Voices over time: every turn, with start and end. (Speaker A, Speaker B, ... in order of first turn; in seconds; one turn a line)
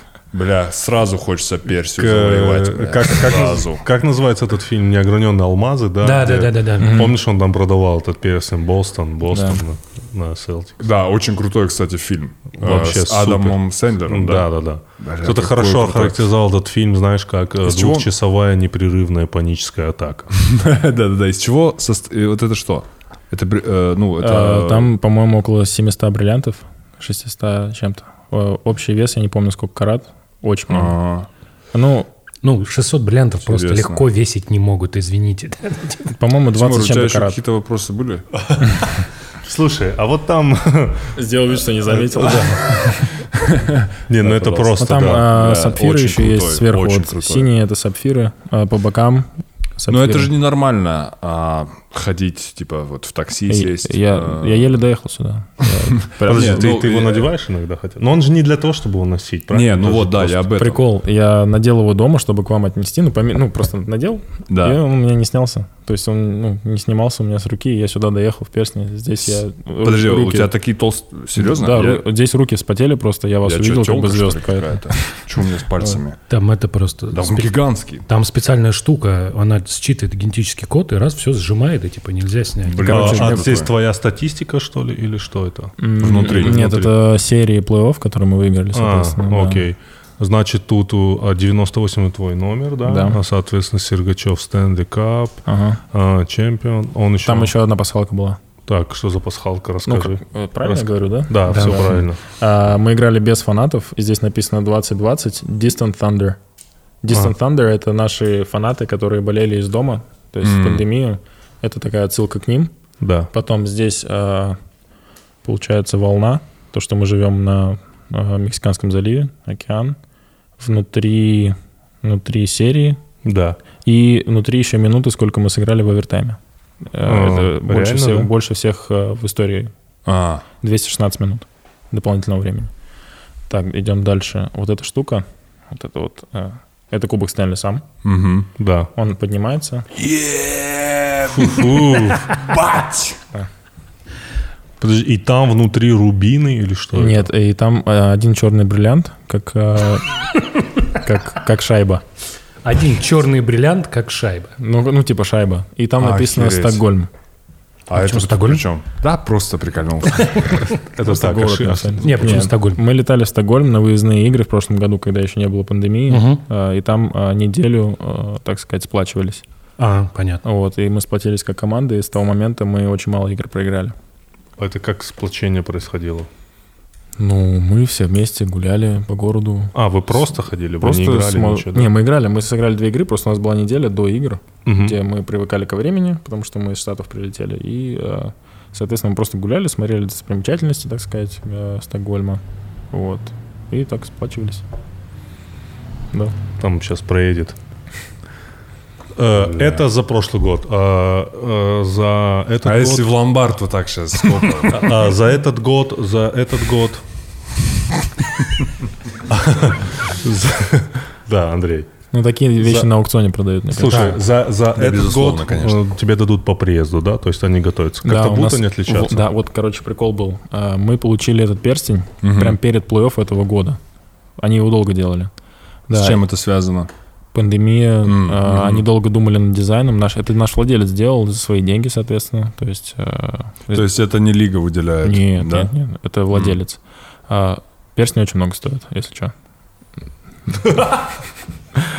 Speaker A: 0.3-3.8
Speaker B: 2.0-10.8
Speaker C: 6.0-7.1
Speaker D: 6.8-7.2
Speaker D: 9.3-9.6
Speaker A: 10.8-16.3
Speaker B: 12.6-20.3
Speaker A: 17.6-18.1
Speaker A: 20.3-24.9
Speaker D: 24.2-31.0
Speaker A: 30.7-31.3
Speaker D: 31.7-32.1
Speaker C: 32.4-36.1
Speaker A: 33.5-34.0
Speaker D: 36.1-37.4
Speaker A: 36.5-38.3
Speaker B: 38.4-38.7
Speaker B: 39.4-41.3
Speaker D: 41.1-43.1
Speaker B: 41.8-42.9
Speaker A: 43.6-43.9
Speaker B: 44.1-45.3
Speaker D: 44.2-50.3
Speaker A: 45.3-47.5
Speaker A: 49.9-54.8
Speaker D: 53.5-56.9
Speaker A: 56.1-57.3
Speaker B: 56.2-60.5
Speaker A: 59.5-60.8
Speaker D: 60.6-70.5
Speaker A: 64.5-64.8
Speaker A: 69.2-72.0
Speaker D: 71.4-75.2
Speaker A: 73.4-76.2
Speaker C: 76.3-83.0
Speaker A: 77.1-78.1
Speaker A: 82.7-83.7
Speaker D: 82.8-83.5
Speaker B: 82.9-86.9
Speaker D: 85.8-89.7
Speaker A: 86.0-86.8
Speaker B: 88.7-97.5
Speaker D: 92.9-93.2
Speaker D: 95.5-95.8
Speaker D: 97.2-98.4
Speaker B: 98.7-102.2
Speaker D: 99.9-106.4
Speaker C: 101.5-101.9
Speaker D: 107.0-112.7
Speaker A: 110.4-110.8
Speaker B: 113.0-113.3
Speaker D: 113.3-114.6
Speaker D: 115.4-120.0
Speaker D: 120.6-123.0
Speaker B: 123.2-123.6
Speaker D: 123.8-129.7
Speaker B: 127.0-128.3
Speaker A: 130.1-130.4
Speaker D: 130.6-132.7
Speaker D: 133.5-137.8
Speaker A: 138.0-138.5
Speaker B: 138.6-138.9
Speaker D: 138.9-139.9
Speaker A: 140.0-143.2
Speaker B: 141.3-142.4
Speaker B: 144.8-147.3
Speaker D: 146.9-152.0
Speaker C: 152.6-154.6
Speaker D: 154.6-157.1
Speaker A: 156.0-156.8
Speaker A: 157.9-160.7
Speaker C: 157.9-158.7
Speaker B: 160.8-162.5
Speaker D: 161.0-169.4
Speaker C: 162.0-162.8
Speaker C: 166.1-166.4
Speaker C: 169.8-170.4
Speaker D: 170.4-174.0
Speaker B: 174.6-176.3
Speaker D: 177.2-179.7
Speaker B: 179.7-181.9
Speaker D: 180.8-194.6
Speaker B: 184.7-185.0
Speaker B: 196.6-197.6
Speaker B: 199.2-203.1
Speaker A: 202.6-204.9
Speaker B: 204.7-207.1
Speaker B: 209.3-211.9
Speaker D: 212.1-214.2
Speaker B: 212.6-212.9
Speaker B: 213.7-219.3
Speaker C: 213.9-214.2
Speaker A: 214.8-215.8
Speaker D: 218.0-223.8
Speaker A: 222.2-222.6
Speaker D: 224.4-225.3
Speaker D: 225.9-226.2
Speaker A: 225.9-226.9
Speaker D: 227.3-233.9
Speaker A: 228.0-228.9
Speaker A: 233.7-235.7
Speaker D: 235.0-239.3
Speaker A: 236.3-236.6
Speaker D: 240.5-241.1